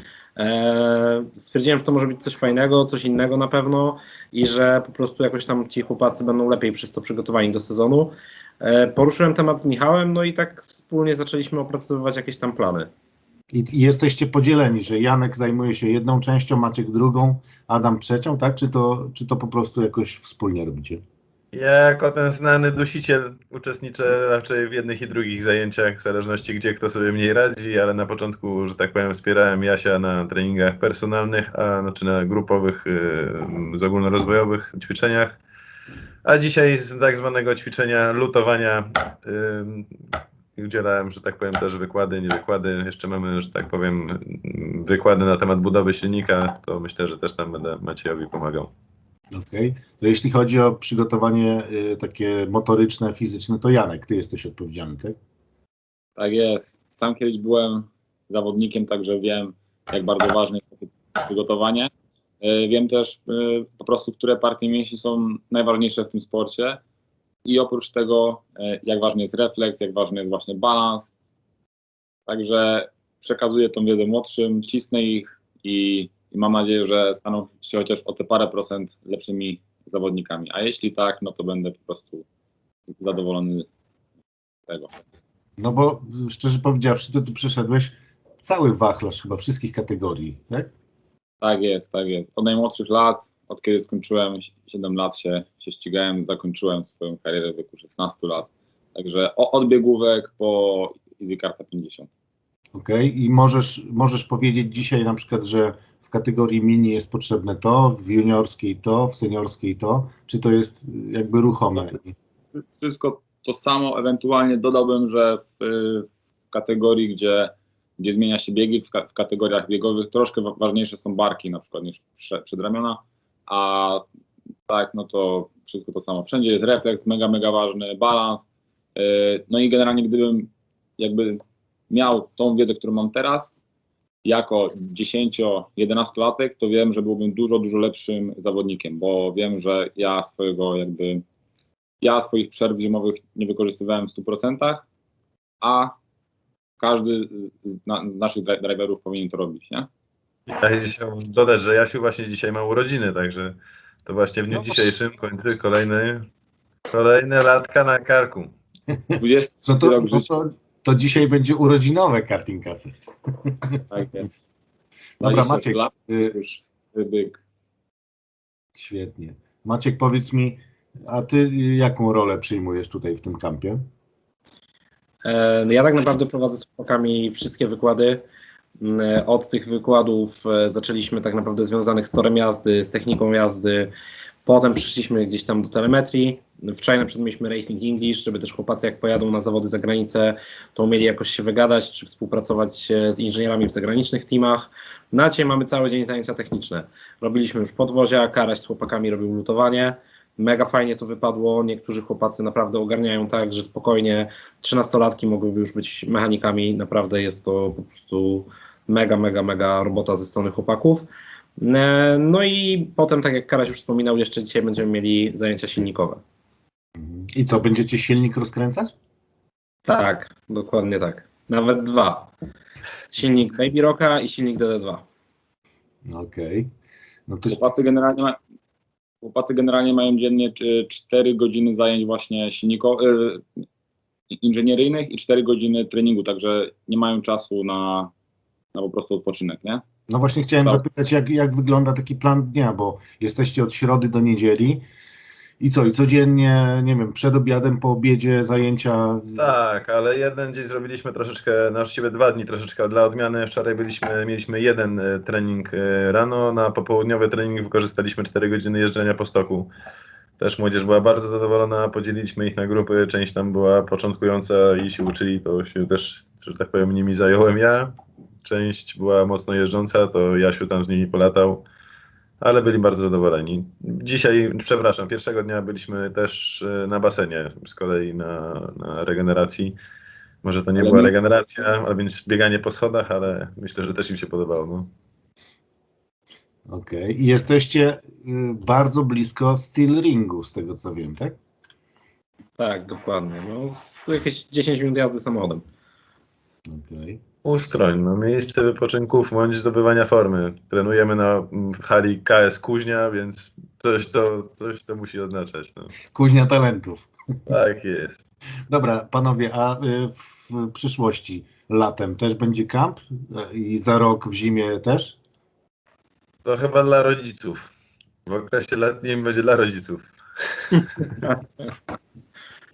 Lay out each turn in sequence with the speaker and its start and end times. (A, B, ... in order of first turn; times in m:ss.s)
0:00.4-0:12.9 A
0:13.5-0:21.0 B
0:21.5-0:35.4 C
0:36.2-0:40.0 C
0:40.6-0:48.7 C
0:49.3-0:55.2 B
0:56.2-1:06.8 D
1:07.4-1:11.1 D
1:12.3-1:22.3 D
1:22.9-1:23.7 D
1:24.7-1:25.0 D
1:25.6-1:30.7 B
1:31.4-1:42.1 D
1:42.7-1:52.1 B
1:52.5-2:04.1 D
2:04.7-2:13.6 D
2:14.2-2:21.2 D
2:22.0-2:24.9 D
2:25.6-2:26.0 D
2:26.8-2:29.9 D
2:30.5-2:36.3 C
2:34.5-2:34.9 B
2:36.9-2:38.5 C
2:39.2-2:40.3 D
2:39.6-2:43.8 B
2:43.9-2:44.3 D
2:45.2-2:46.4 B
2:45.2-2:47.4 D
2:48.8-2:53.8 B
2:55.2-2:58.2 A
2:58.8-3:03.9 A
3:04.4-3:36.2 A
3:37.0-3:38.9 B
3:39.9-3:42.3 A
3:43.1-3:45.0 A
3:46.0-3:46.7 B
3:47.3-3:47.6 B
3:47.5-3:48.4 D
3:49.2-3:53.5 D
3:54.4-3:58.1 D
3:58.7-3:59.8 D
4:00.1-4:04.8 B
4:05.6-4:09.5 B
4:09.4-4:19.7 C
4:20.4-4:31.6 C
4:32.4-4:39.8 C
4:40.4-4:44.9 C
4:40.8-4:41.1 D
4:46.7-4:51.4 B
4:52.6-4:55.6 A
4:56.7-4:57.2 B
4:57.4-5:05.9 C
5:06.1-5:07.1 B
5:07.5-5:08.2 C
5:08.7-5:15.2 B
5:16.4-5:17.7 C
5:18.3-5:21.2 C